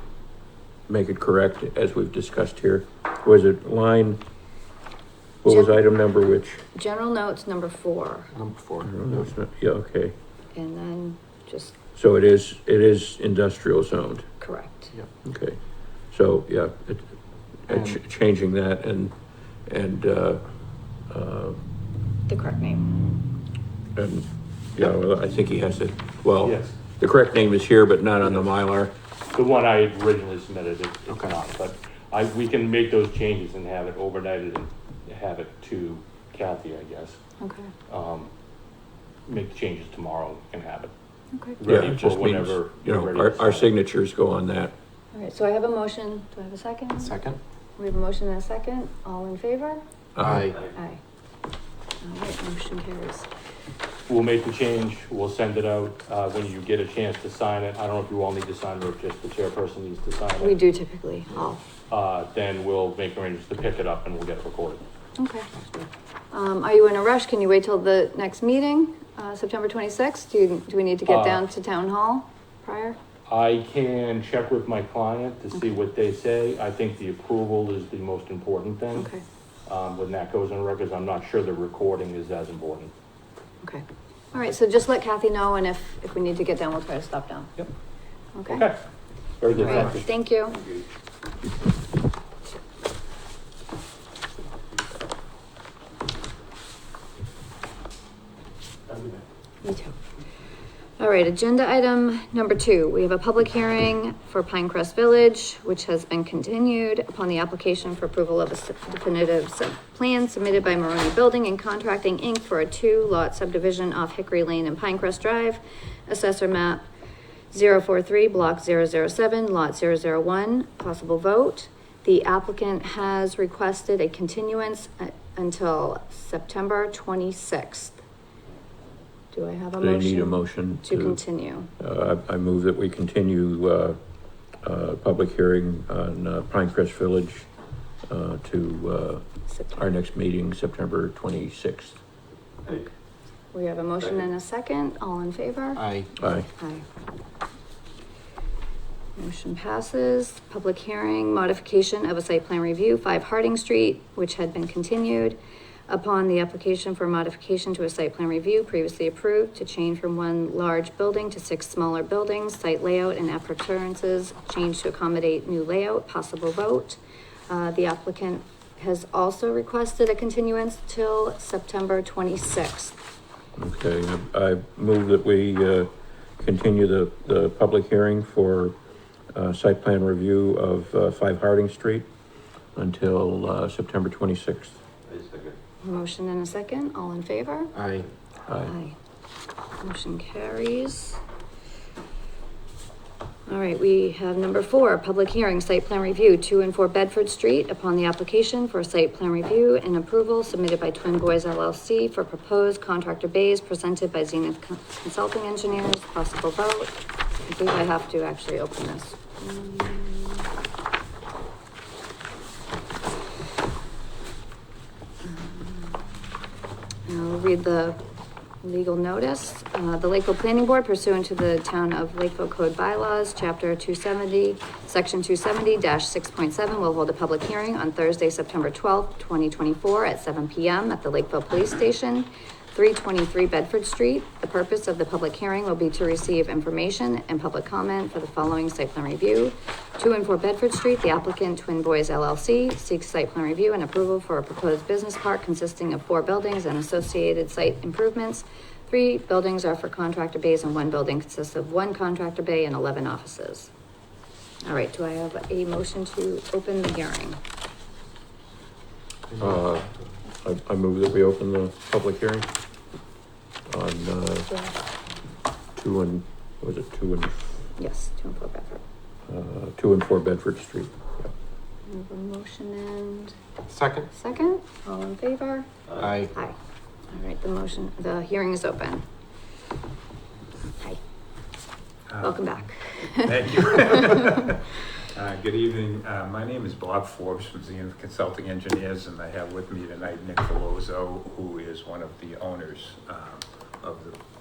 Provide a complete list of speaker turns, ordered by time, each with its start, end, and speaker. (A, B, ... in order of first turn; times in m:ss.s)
0:00.9-0:04.2 A
0:05.4-0:06.6 A
0:05.4-0:05.8 B
0:06.7-0:08.3 B
0:08.3-0:09.3 C
0:08.8-0:10.1 A
0:10.5-0:11.8 B
0:11.9-0:14.3 A
0:14.4-0:14.9 B
0:15.2-0:19.1 A
0:17.7-0:18.0 C
0:19.6-0:20.4 A
0:21.1-0:21.6 A
0:22.3-0:22.9 B
0:24.0-0:28.9 A
0:26.4-0:26.8 D
0:29.3-0:37.2 D
0:31.1-0:31.3 C
0:37.4-0:37.7 B
0:37.9-0:38.3 D
0:39.2-0:40.9 D
0:41.5-0:43.7 D
0:41.6-0:44.7 A
0:45.1-0:47.2 B
0:47.0-0:47.4 C
0:47.8-0:49.8 B
0:50.1-0:50.5 A
0:50.2-0:50.6 C
0:50.7-0:51.0 B
0:52.0-0:53.3 B
0:54.1-1:00.6 D
1:00.4-1:01.6 B
1:01.9-1:04.8 D
1:05.2-1:05.5 B
1:06.3-1:13.0 B
1:11.0-1:11.4 D
1:13.3-1:19.1 D
1:19.0-1:19.2 B
1:19.6-1:22.9 D
1:23.6-1:27.5 B
1:28.3-1:28.6 B
1:28.5-1:28.8 D
1:29.4-1:30.1 D
1:29.6-1:30.6 B
1:39.6-1:40.0 B
1:41.0-1:56.8 B
1:57.5-2:08.0 B
2:09.3-2:11.7 B
2:09.8-2:11.2 A
2:11.8-2:14.0 A
2:14.6-2:17.5 A
2:18.1-2:22.0 A
2:19.5-2:19.8 B
2:23.5-2:25.8 B
2:25.8-2:26.1 C
2:26.2-2:26.5 A
2:26.6-2:26.8 B
2:29.2-2:53.0 B
2:53.6-2:58.8 A
2:59.3-3:02.1 A
3:02.8-3:04.8 A
3:05.8-3:07.7 B
3:07.7-3:08.1 C
3:08.5-3:08.7 A
3:08.7-3:09.0 B
3:09.8-3:11.2 B
3:13.5-3:30.5 B
3:35.2-3:36.0 B
3:37.0-3:38.0 B
3:38.6-4:13.7 B
4:14.6-4:17.4 B
4:19.4-4:22.5 A
4:23.7-4:24.5 A
4:24.5-4:24.7 B
4:25.8-4:27.4 A
4:27.8-4:28.8 B
4:29.3-4:31.3 A
4:31.8-4:33.4 B
4:33.7-4:34.1 C
4:34.1-4:35.7 B
4:36.0-4:36.3 C
4:37.1-4:39.0 B
4:42.1-4:42.6 E
4:42.2-4:44.5 B
4:43.2-4:44.6 E
4:45.1-4:54.2 E